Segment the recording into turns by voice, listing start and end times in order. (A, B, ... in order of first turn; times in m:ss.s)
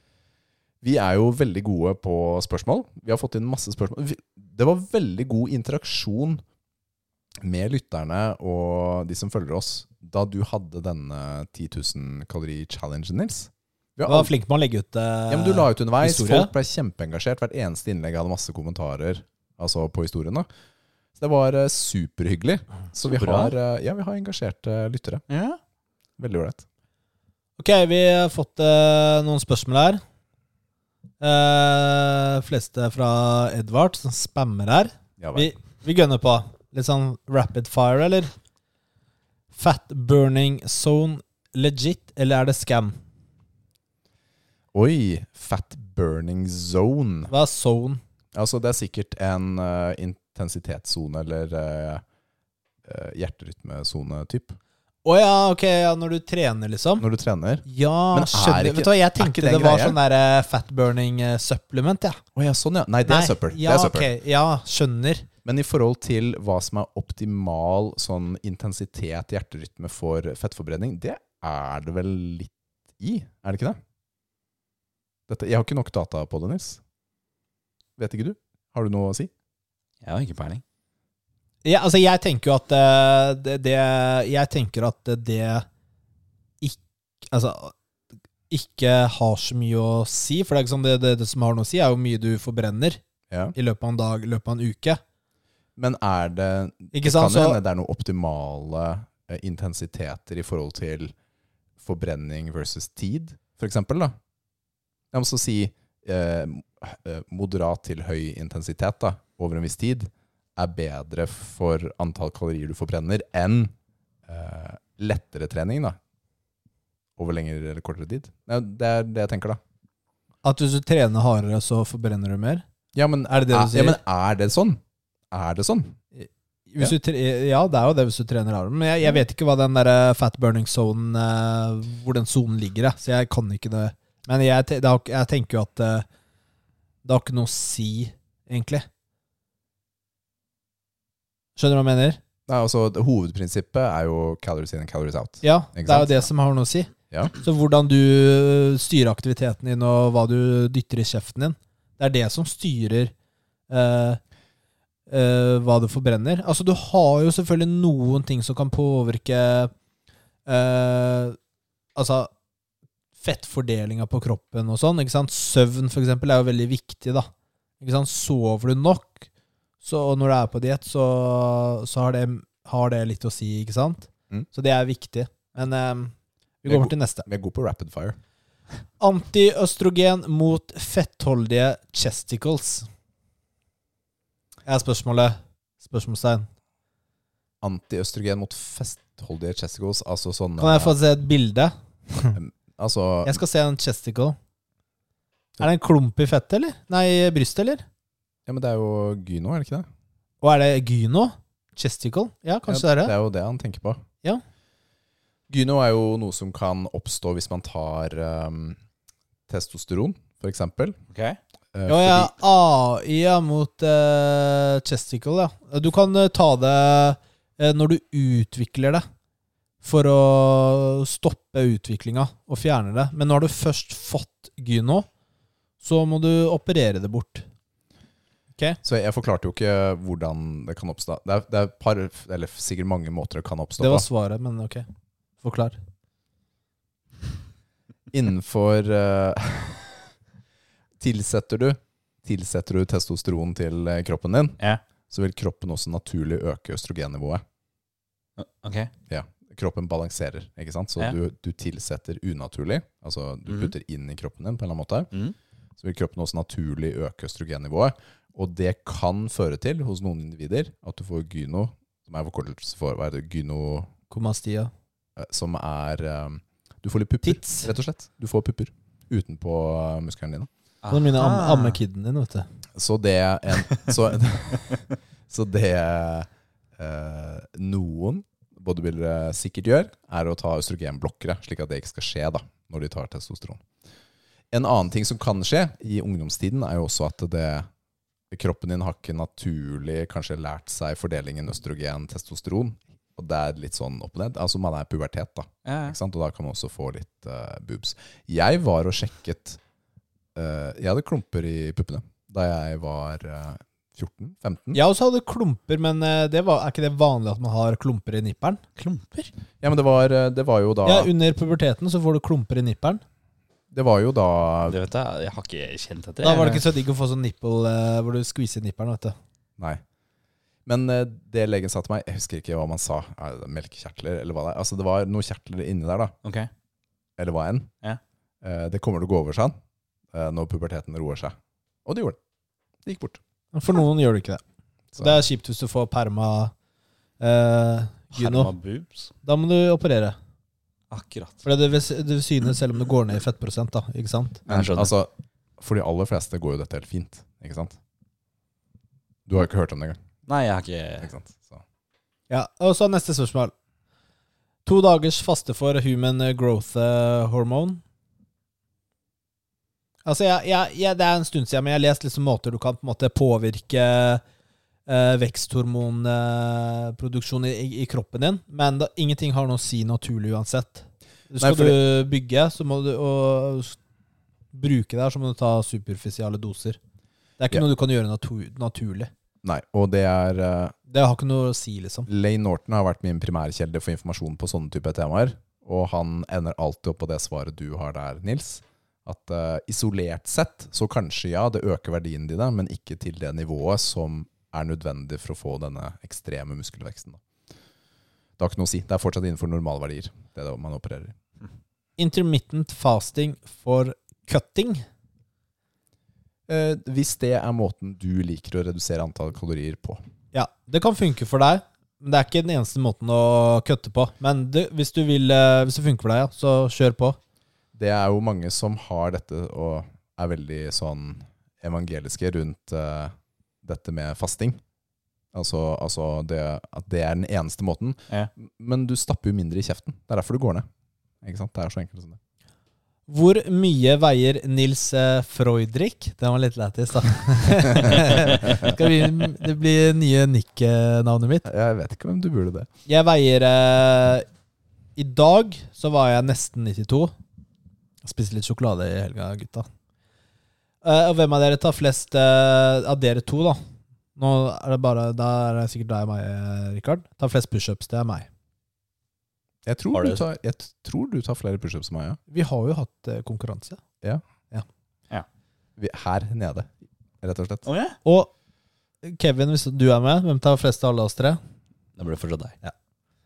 0:00.8-0:06.4 A
0:07.4-0:14.3 A
0:14.0-0:16.5 B
0:15.3-0:20.5 A
0:21.2-0:25.2 A
0:23.0-0:23.5 C
0:25.3-0:25.6 C
0:26.2-0:26.6 A
0:27.6-0:30.0 B
0:31.2-0:38.3 B
0:35.2-0:35.5 A
0:39.5-0:43.0 B
0:44.7-0:47.3 A
0:47.3-0:48.0 B
0:48.3-0:52.0 A
0:52.8-0:54.6 A
0:55.0-0:57.0 B
0:57.0-1:00.0 A
0:57.6-1:02.2 B
1:02.3-1:04.1 A
1:03.0-1:05.3 B
1:05.4-1:13.8 A
1:15.3-1:16.8 A
1:18.0-1:19.3 A
1:20.0-1:20.6 C
1:21.6-1:25.6 B
1:26.6-1:27.7 B
1:28.5-1:33.0 B
1:33.3-1:33.5 A
1:33.5-1:35.0 B
1:35.8-1:41.1 A
1:36.9-1:37.6 B
1:41.8-1:44.1 A
1:45.1-1:53.7 A
1:54.3-1:56.0 A
1:57.2-1:59.6 A
2:00.4-2:02.6 B
2:02.9-2:04.8 A
2:03.3-2:04.0 B
2:05.3-2:06.0 A
2:06.1-2:16.0 B
2:17.0-2:18.9 B
2:21.6-2:22.2 B
2:22.5-2:26.2 A
2:25.4-2:33.1 B
2:33.7-2:34.2 B
2:35.1-2:39.7 B
2:40.5-2:41.4 B
2:42.0-2:42.3 B
2:43.2-2:47.3 B
2:47.8-2:49.3 B
2:49.8-2:57.3 B
2:56.6-2:58.2 A
2:59.0-3:02.9 B
3:04.7-3:06.5 B
3:07.6-3:11.0 A
3:10.6-3:12.4 B
3:12.3-3:13.4 A
3:13.2-3:14.4 B
3:15.6-3:17.8 B
3:18.4-3:19.9 A
3:20.4-3:23.1 B
3:22.7-3:24.0 A
3:25.5-3:28.8 A
3:29.5-3:31.0 A
3:31.1-3:31.4 C
3:31.7-3:32.3 A
3:31.9-3:39.0 B
3:39.8-3:45.1 B
3:45.8-3:47.4 B
3:48.8-3:54.0 A
3:53.8-3:54.8 B
3:55.4-3:55.8 B
3:58.1-3:59.9 A
4:01.0-4:04.6 A
4:05.1-4:07.4 A
4:08.4-4:08.9 C
4:09.1-4:15.1 A
4:13.5-4:13.7 C
4:15.8-4:23.9 A
4:24.1-4:24.7 B
4:25.2-4:30.5 A
4:27.2-4:27.7 B
4:30.8-4:31.8 C
4:30.9-4:32.5 B
4:32.8-4:43.6 A
4:44.5-4:47.7 A
4:48.3-4:59.6 A
4:55.6-4:56.0 C
5:00.3-5:04.8 A
5:04.7-5:08.6 B
5:08.8-5:09.3 C
5:09.6-5:11.1 A
5:10.8-5:13.0 B
5:13.7-5:14.8 A
5:14.7-5:16.6 C
5:16.2-5:19.1 B
5:20.6-5:26.1 A
5:26.2-5:26.5 C
5:27.2-5:27.7 A
5:28.4-5:29.5 A
5:30.1-5:31.3 A
5:31.8-5:32.2 A
5:32.8-5:33.2 A
5:33.5-5:34.4 B
5:35.0-5:35.2 A
5:35.0-5:36.5 B
5:37.2-5:38.5 B
5:38.1-5:39.1 C
5:39.2-5:40.2 B
5:40.9-5:41.4 C
5:41.4-5:44.4 B
5:44.5-5:44.9 C
5:44.5-5:47.8 A
5:49.3-5:50.0 A
5:50.3-5:51.1 C
5:51.0-5:51.6 A
5:52.3-5:53.5 B
5:54.6-5:57.8 B
6:00.0-6:04.2 B
6:04.9-6:13.8 B
6:11.4-6:11.8 A
6:14.5-6:16.8 B
6:17.4-6:19.1 B
6:19.4-6:20.7 A
6:20.9-6:22.1 B
6:22.1-6:37.2 A
6:38.4-6:41.1 A
6:42.0-6:44.8 B
6:46.5-6:50.0 A
6:50.3-6:57.2 B
6:57.7-7:04.6 A
7:05.3-7:10.6 A
7:11.2-7:12.2 A
7:13.1-7:21.4 B
7:17.8-7:18.7 A
7:21.4-7:22.7 A
7:22.9-7:24.2 B
7:25.0-7:27.1 B
7:28.0-7:29.6 B
7:30.8-7:33.6 B
7:34.2-7:38.3 B
7:39.6-7:42.2 A
7:39.9-7:40.2 C
7:42.3-7:43.8 B
7:45.8-7:46.7 A
7:47.2-7:47.7 A
7:47.6-7:48.0 C
7:48.0-7:48.3 B
7:49.0-7:51.4 B
7:52.0-7:52.5 C